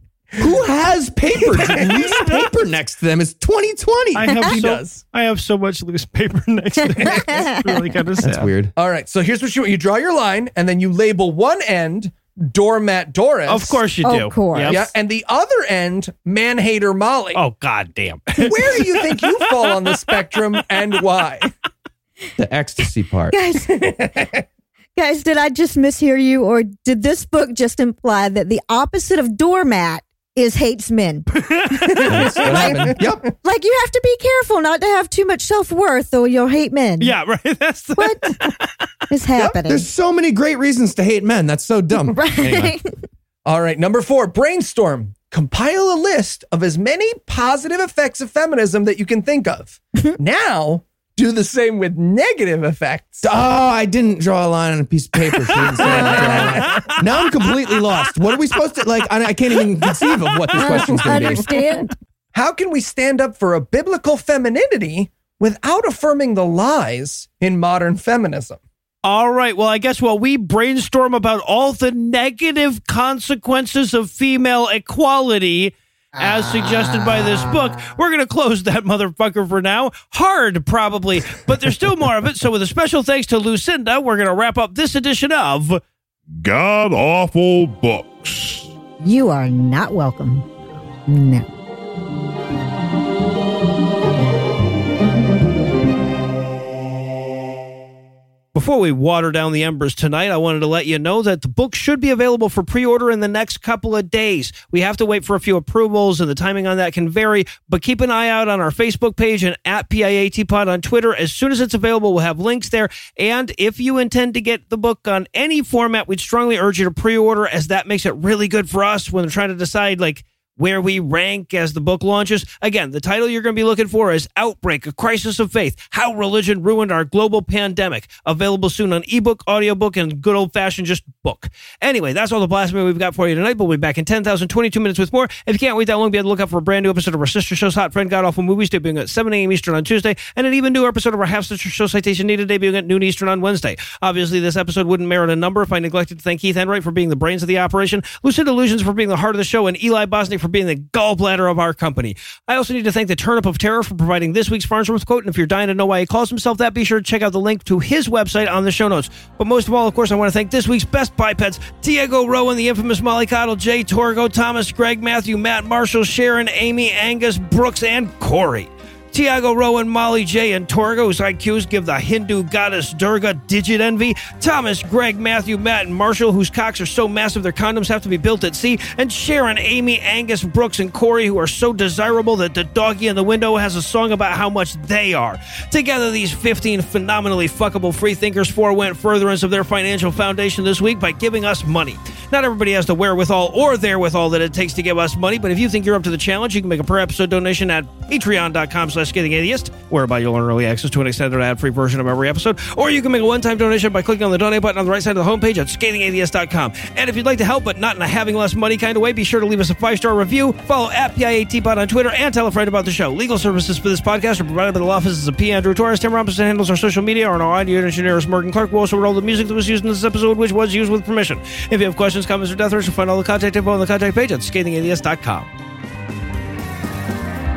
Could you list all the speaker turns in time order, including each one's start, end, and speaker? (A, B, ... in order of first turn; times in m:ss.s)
0:00.4-0:04.5 A
0:01.5-0:02.0 B
0:04.2-0:08.5 C
0:04.4-0:05.0 B
0:07.0-0:07.8 D
0:08.2-0:08.7 A
0:08.8-0:13.8 B
0:13.5-0:14.9 C
0:14.0-0:14.8 D
0:14.7-0:17.4 B
0:17.4-0:20.1 C
0:18.4-0:21.5 B
0:22.4-0:23.4 A
0:23.3-0:23.8 D
0:23.7-0:24.4 B
0:25.0-0:31.3 D
0:31.4-0:32.4 C
0:32.0-0:33.0 B
0:32.0-0:37.2 D
0:32.1-0:33.3 A
0:37.0-0:38.8 C
0:38.0-0:38.4 D
0:39.1-0:39.9 D
0:39.4-0:42.8 A
0:42.1-0:42.9 D
0:43.4-0:53.3 B
0:53.2-1:01.6 A
0:55.6-0:56.9 C
0:55.8-0:56.6 D
0:56.0-0:56.8 B
1:00.6-1:01.9 D
1:01.1-1:01.4 B
1:02.3-1:08.6 B
1:09.0-1:25.8 C
1:16.2-1:17.9 D
1:26.4-1:28.7 E
1:29.0-1:30.5 D
1:31.1-1:31.5 D
1:38.5-3:45.5 C